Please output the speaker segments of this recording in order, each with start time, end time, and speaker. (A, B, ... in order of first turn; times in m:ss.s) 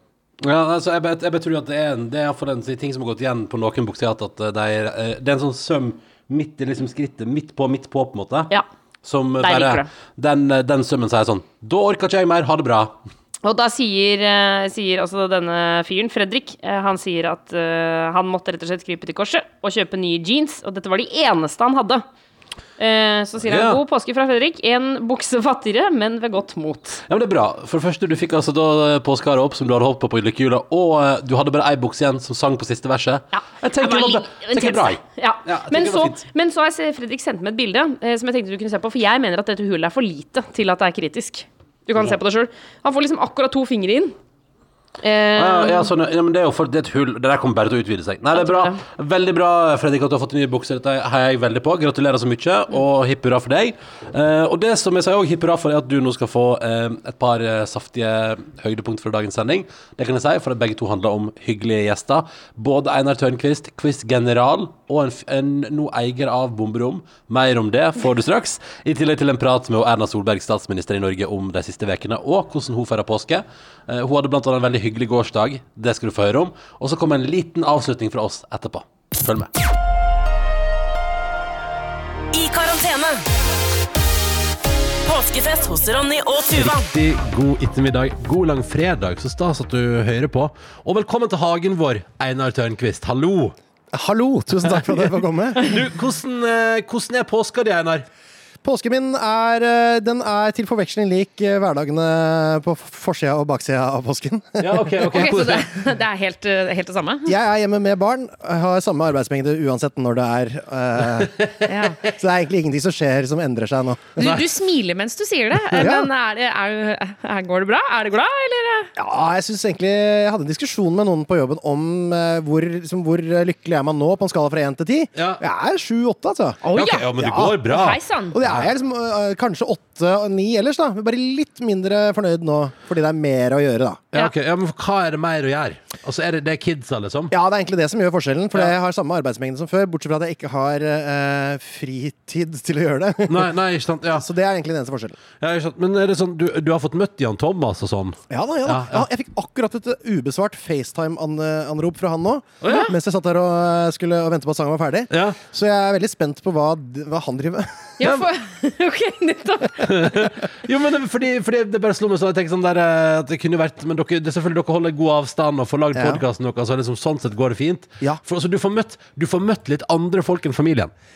0:00.4-0:08.5 A
0:09.0-0:13.0 A
0:09.4-0:09.9 B
0:13.4-0:22.0 B
0:22.8-0:27.0 B
0:23.4-0:23.8 A
0:27.1-0:36.2 A
0:33.3-0:44.1 B
0:45.0-0:45.9 B
0:45.4-1:19.5 A
0:48.3-0:48.8 B
1:22.3-1:23.2 C
1:25.0-1:26.9 C
1:26.5-1:33.5 A
1:33.9-1:35.7 D
1:35.6-1:38.0 A
1:38.6-1:45.3 D
1:44.6-1:45.7 A
1:45.1-1:47.3 B
1:47.2-1:54.2 D
1:51.6-1:52.0 B
1:54.2-1:58.9 B
1:55.7-1:56.1 D
1:59.0-2:07.7 D
2:05.1-2:05.4 A
2:06.6-2:07.1 B
2:06.7-2:08.7 A
2:07.6-2:08.4 B
2:08.3-2:14.0 D
2:14.1-2:17.3 A
2:17.3-2:23.5 D
2:23.3-2:24.2 A
2:24.1-2:25.2 D
2:25.4-2:29.1 A
2:28.3-2:37.9 D
2:32.6-2:32.9 A
2:35.1-2:35.4 A
2:38.0-2:40.2 B
2:39.8-2:50.9 A
2:45.9-2:46.2 D